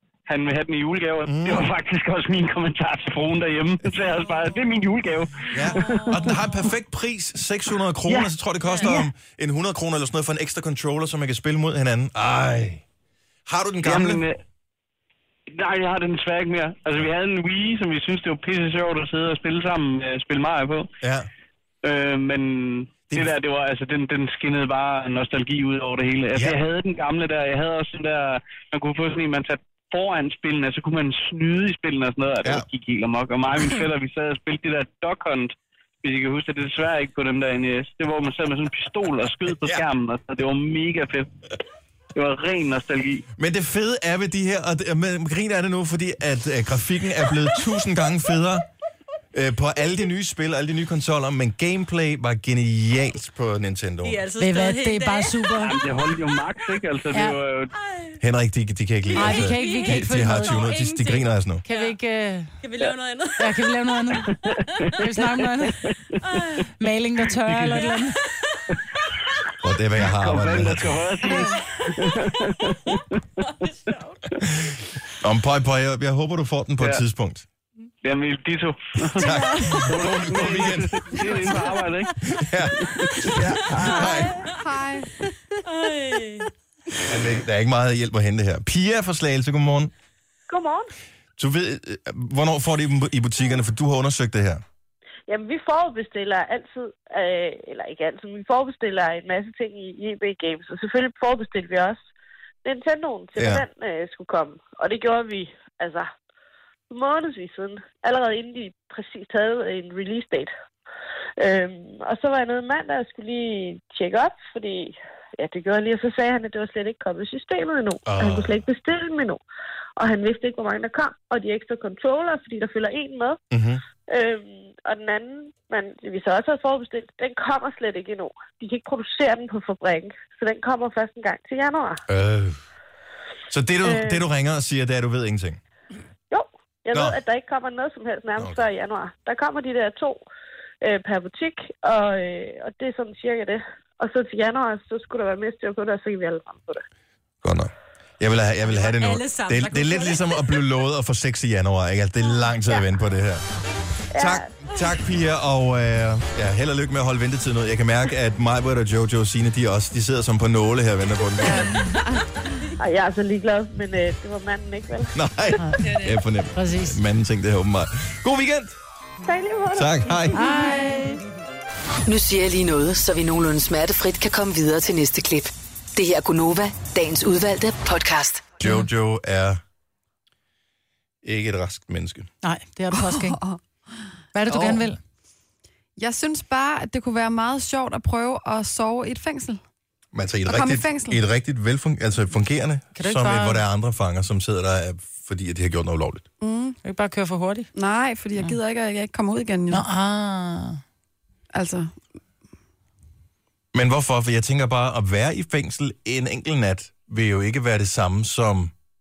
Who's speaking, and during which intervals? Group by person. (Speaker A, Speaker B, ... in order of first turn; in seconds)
Speaker A: 0.3-6.5, 8.0-8.3, 13.8-14.3, 15.5-20.9, 21.8-41.3, 42.1-43.2, 55.6-57.7, 64.3-66.4, 67.4-67.8, 70.0-73.9, 78.0-82.2, 82.8-83.6
Speaker B: 1.2-1.6, 5.5-12.8, 13.5-14.2, 21.0-21.3, 39.5-39.8, 43.4-48.7, 49.3-54.2, 58.2-61.6, 69.6-71.0, 74.4-77.4, 79.2-81.5, 82.2-84.4, 87.0-89.9, 91.4-94.6, 103.4-103.6, 118.0-118.6, 123.5-123.8, 132.1-132.6, 133.5-135.6, 138.4-138.6, 147.4-153.4, 154.1-161.8, 165.1-168.7, 169.7-170.4, 178.6-179.6, 181.2-182.3, 190.1-196.2, 203.7-208.7
Speaker C: 4.1-4.8, 5.4-6.5, 8.6-9.0, 54.0-55.7, 57.9-58.1, 59.1-62.0, 62.6-64.6, 66.2-66.7, 67.8-68.6, 73.9-74.2, 83.7-84.5, 85.6-86.5, 148.7-150.6
Speaker D: 54.4-55.8, 57.1-57.4, 59.1-60.8, 61.6-62.5, 63.4-64.3, 65.0-65.8, 66.8-68.2, 165.6-165.9, 166.5-167.0, 170.3-171.2, 178.6-178.9, 182.4-183.4, 184.3-185.0, 192.9-193.6, 196.8-197.7, 199.7-200.8
Speaker E: 79.2-80.0, 83.7-85.1, 161.5-162.2, 182.9-183.6, 184.5-184.9, 186.0-189.6, 190.4-191.2, 196.4-196.8, 197.7-199.8, 201.5-201.9
Speaker F: 90.5-90.9, 95.3-102.0, 102.6-106.1, 106.9-110.5, 111.4-119.4, 120.0-123.4, 124.0-132.0, 133.8-134.2, 136.3-140.2, 140.8-146.8, 154.1-154.5, 162.8-165.1, 169.2-170.6
Speaker G: 172.0-178.5